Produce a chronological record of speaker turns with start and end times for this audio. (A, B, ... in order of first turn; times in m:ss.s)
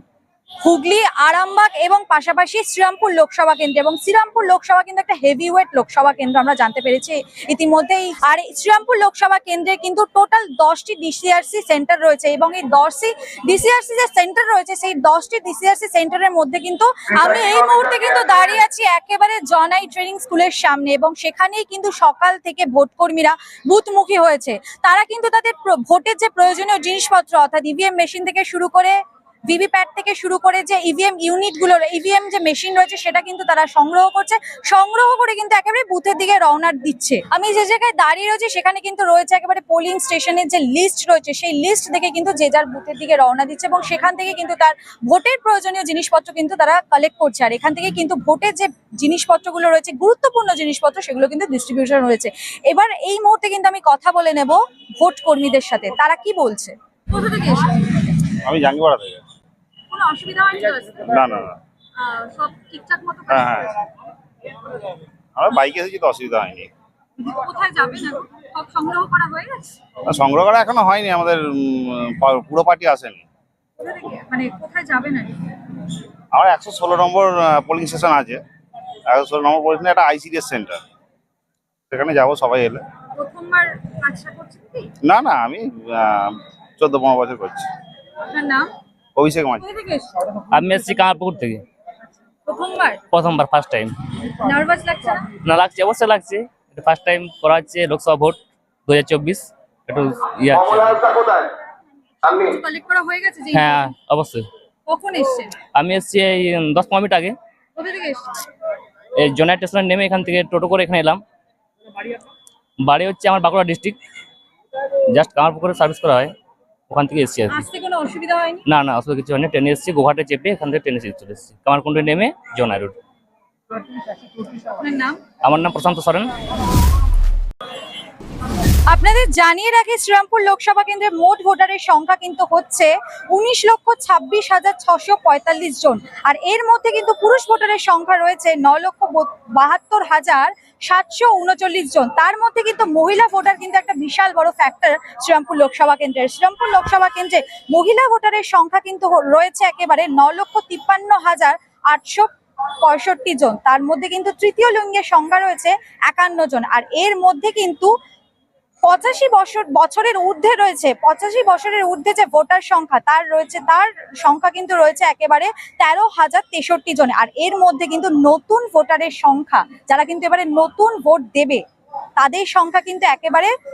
0:00.6-0:29.0 A
0:29.5-0:58.1 A
0:58.4-0:59.2 B
0:59.9-1:01.2 A
1:01.0-1:01.6 B
1:02.0-1:03.7 A
1:03.3-1:03.8 B
1:05.4-1:06.7 B
1:07.2-1:09.8 A
1:10.0-1:13.2 B
1:13.8-1:15.7 A
1:16.3-1:18.4 B
1:19.1-1:20.8 B
1:21.9-1:22.8 B
1:23.2-1:24.9 A
1:25.0-1:27.7 B
1:28.3-1:28.7 A
1:29.2-1:29.6 B
1:29.6-1:30.4 A
1:30.5-1:31.6 C
1:32.3-1:33.0 A
1:33.1-1:34.1 C
1:34.2-1:35.3 A
1:35.4-1:41.5 C
1:42.2-1:43.9 A
1:43.5-1:44.4 C
1:44.9-1:45.6 A
1:45.7-1:47.3 C
1:47.8-1:48.5 A
1:49.2-1:51.2 C
1:52.8-1:54.0 C
1:55.1-1:56.3 C
1:56.9-1:57.6 C
1:57.5-1:58.6 A
1:58.7-2:03.0 C
2:04.6-2:05.2 A
2:05.4-2:06.3 C
2:08.9-2:32.3 A
2:32.8-2:37.9 A
2:38.8-2:51.6 A
2:52.2-2:53.5 A